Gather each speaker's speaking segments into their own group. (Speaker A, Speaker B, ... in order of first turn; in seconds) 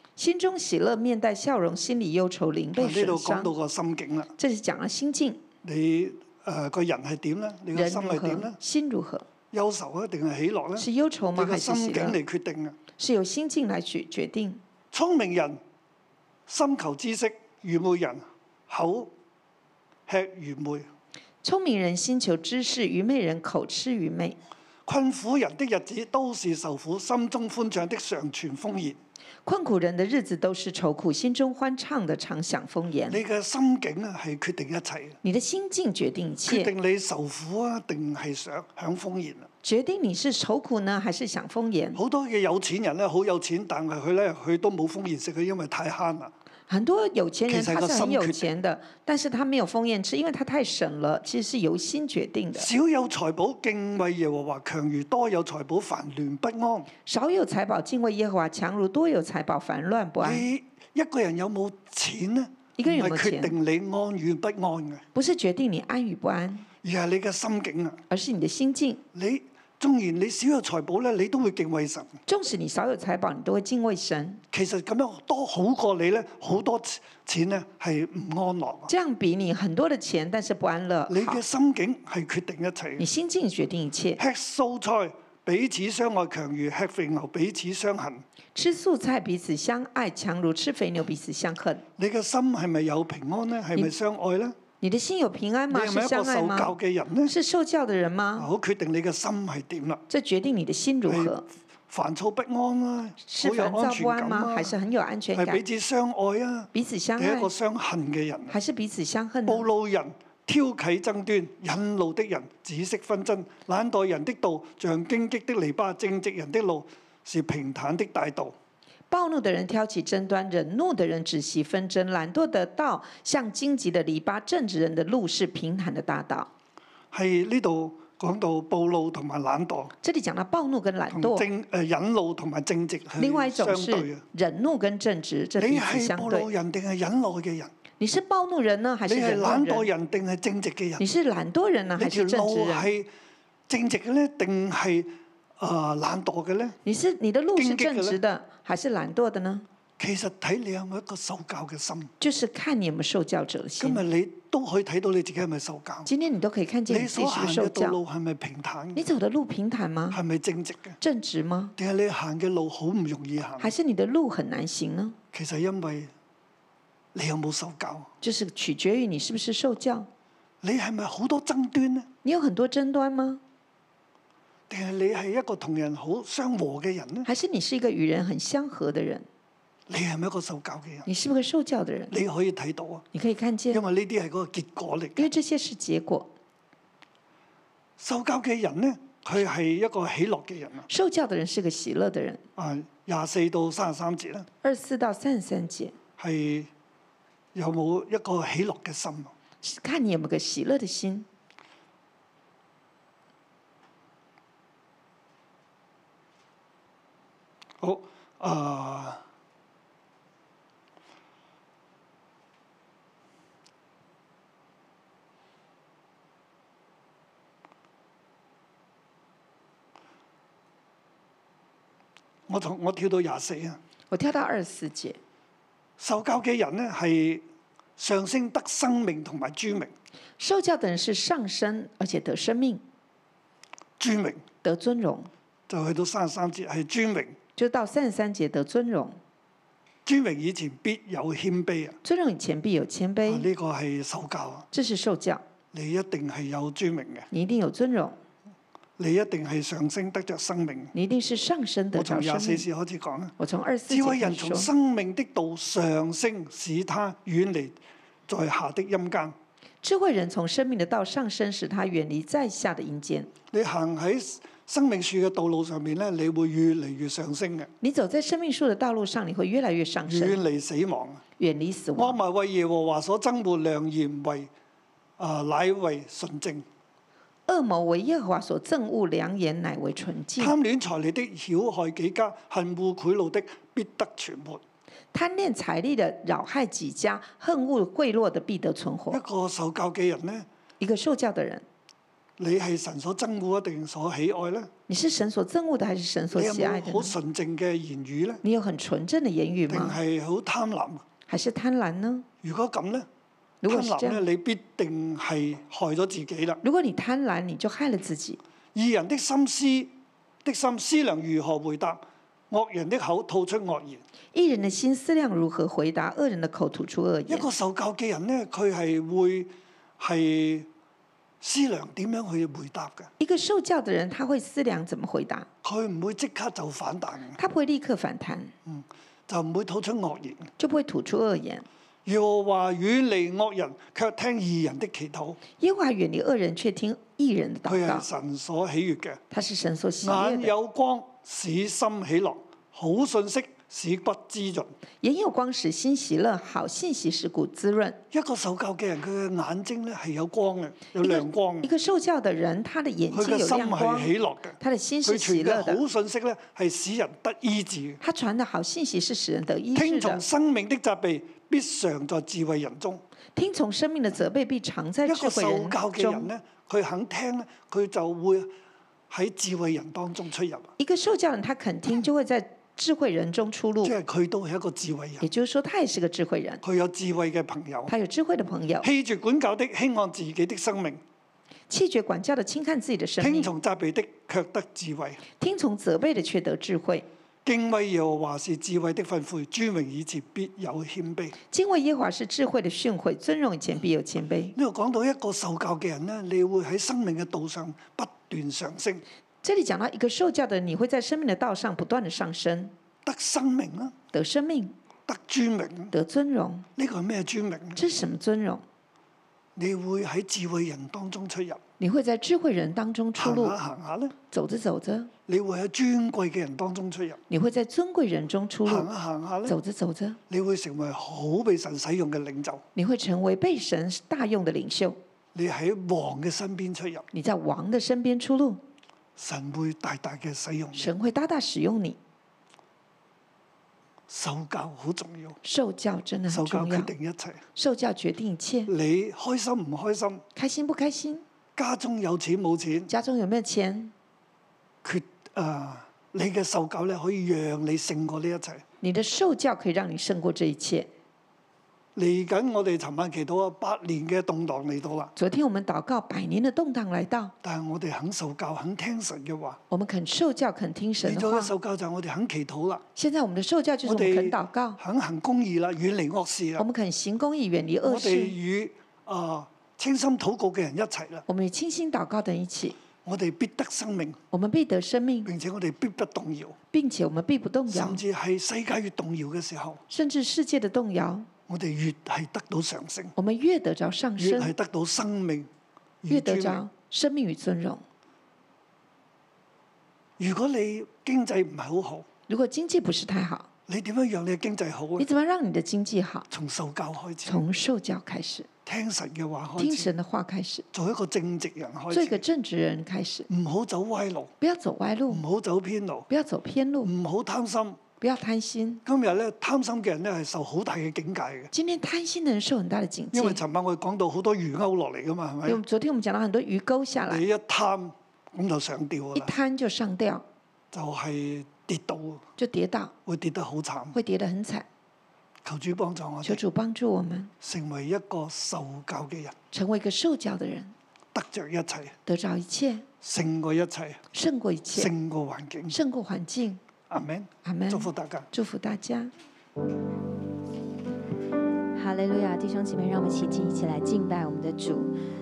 Speaker A: 0.2-3.5, 4.4-5.4, 7.7-9.3, 10.8-12.2, 13.0-14.6, 21.4-24.4, 29.4-33.2, 35.2-36.7, 39.6-42.0, 46.7-52.7, 57.1-60.5, 62.8-63.5, 65.2-66.7, 68.1-69.0, 72.3-74.4, 78.9-81.4, 83.0-84.2, 88.5-91.8, 94.8-98.5, 100.1-101.4, 103.2-105.6, 106.7-107.5, 108.5-109.7, 119.1-126.5, 130.0-131.4, 133.2-136.5, 138.0-139.9, 141.0-142.9, 146.8-149.7, 152.2-154.0, 156.1-158.0, 158.9-160.2, 161.0-161.8, 163.6-165.2, 168.2-170.1, 172.2-173.4, 177.3-179.3, 181.1-182.2, 183.1-183.8, 185.2-186.3, 190.9-192.4, 194.6-196.0, 199.6-201.3, 224.1-225.2, 230.4-232.8, 234.6-235.3, 237.6-239.2, 242.0-243.5, 244.7-245.4, 247.3-248.2, 250.9-252.7, 253.4-254.7, 259.8-263.3, 267.8-270.4, 271.4-272.2, 277.5-280.6, 285.1-289.2, 290.8-291.6, 294.9-297.1, 298.4-300.0, 301.3-302.3, 303.6-304.2, 306.6-308.4, 314.3-317.5, 323.2-325.5, 327.4-328.5, 330.6-331.7, 335.6-338.1, 339.3-340.5, 345.0-348.0, 351.0-355.8, 358.0-360.2, 363.4-366.3, 370.8-373.9, 375.2-376.6, 377.9-378.9, 381.7-383.5, 385.4-387.1, 391.5-394.6, 399.4-402.7, 404.1-404.8, 405.9-406.7, 407.8-408.6, 411.8-413.6, 414.3-415.1, 417.3-418.9, 419.4-420.2, 422.8-425.0, 427.1-428.6, 430.8-432.0, 435.4-436.9, 437.6-438.7, 440.4-441.2, 442.9-443.9, 448.8-450.9, 455.2-457.3, 459.7-461.5, 463.0-464.8, 466.6-468.4, 471.3-472.8, 474.3-475.3, 476.7-478.0, 479.9-481.3, 483.2-484.5, 486.1-487.8, 492.3-493.5, 495.0-496.3, 497.3-498.5, 499.6-500.6, 501.9-503.3, 504.4-505.2, 506.1-506.9, 508.0-508.8, 511.5-513.4, 515.5-517.2, 519.1-520.2, 522.4-522.9, 523.9-524.7, 526.2-527.3, 529.5-530.7, 532.1-532.9, 534.1-534.9, 535.7-536.6, 537.4-539.1
Speaker B: 2.8-4.3, 5.6-8.6, 9.5-12.8, 14.9-15.6, 16.5-19.1, 20.1-20.9, 24.9-29.0, 33.1-35.2, 36.5-39.5, 42.0-46.3, 47.5-48.5, 52.5-56.9, 60.2-65.0, 66.8-68.0, 69.1-72.2, 74.5-78.9, 81.1-83.1, 84.2-88.2, 92.0-94.6, 95.7-97.3, 98.4-100.0, 101.1-104.8, 105.3-108.6, 109.5-118.5, 127.1-129.9, 131.1-134.2, 135.6-137.7, 139.1-141.0, 142.0-143.1, 143.7-146.8, 147.6-148.2, 150.0-152.1, 153.8-156.1, 156.9-159.1, 160.1-161.0, 161.8-163.7, 165.3-166.1, 167.2-168.1, 170.6-172.1, 174.7-177.3, 179.9-181.1, 182.1-183.1, 183.7-185.3, 188.0-190.9, 192.6-194.5, 196.2-196.7, 197.6-199.3, 207.8-209.2, 222.5-223.8, 226.0-227.4, 228.0-229.9, 234.0-234.4, 235.7-237.4, 240.1-242.0, 243.2-244.7, 245.7-247.3, 249.0-250.9, 251.9-253.3, 253.9-257.8, 258.3-259.4, 263.5-267.7, 270.1-271.2, 272.0-274.5, 275.2-276.7, 280.4-284.6, 289.1-290.5, 292.4-294.7, 296.3-298.4, 299.7-301.0, 302.4-303.1, 303.7-306.6, 308.8-314.0, 317.3-320.7, 321.4-323.1, 325.6-327.4, 328.6-330.5, 332.1-335.4, 337.6-339.2, 340.0-344.7, 348.1-351.7, 353.1-358.0, 359.8-363.0, 365.1-368.5, 369.1-370.7, 373.8-375.3, 376.6-377.9, 378.8-381.0, 383.2-385.2, 387.4-391.4, 394.6-399.0, 403.1-403.9, 405.1-405.9, 406.8-407.8, 409.6-411.6, 413.2-414.1, 415.3-417.2, 418.7-419.6, 420.3-422.6, 425.4-427.1, 429.2-430.9, 434.1-435.4, 436.3-437.4, 438.7-440.2, 441.6-442.9, 444.8-448.6, 451.9-455.1, 457.4-459.6, 461.0-462.9, 463.8-466.6, 467.8-471.3, 473.1-474.2, 475.2-476.6, 477.7-479.8, 481.5-483.1, 484.2-485.5, 486.0-486.6, 490.2-492.1, 493.7-495.1, 496.3-497.4, 498.7-499.9, 500.7-502.2, 503.3-504.3, 505.1-506.1, 506.8-507.8, 508.9-511.5, 513.1-515.6, 517.0-519.3, 520.7-522.2, 523.1-524.0, 525.5-526.4, 527.4-529.4, 531.1-532.0, 533.0-534.0, 534.7-535.8, 536.9-538.3
Speaker C: 541.8-544.9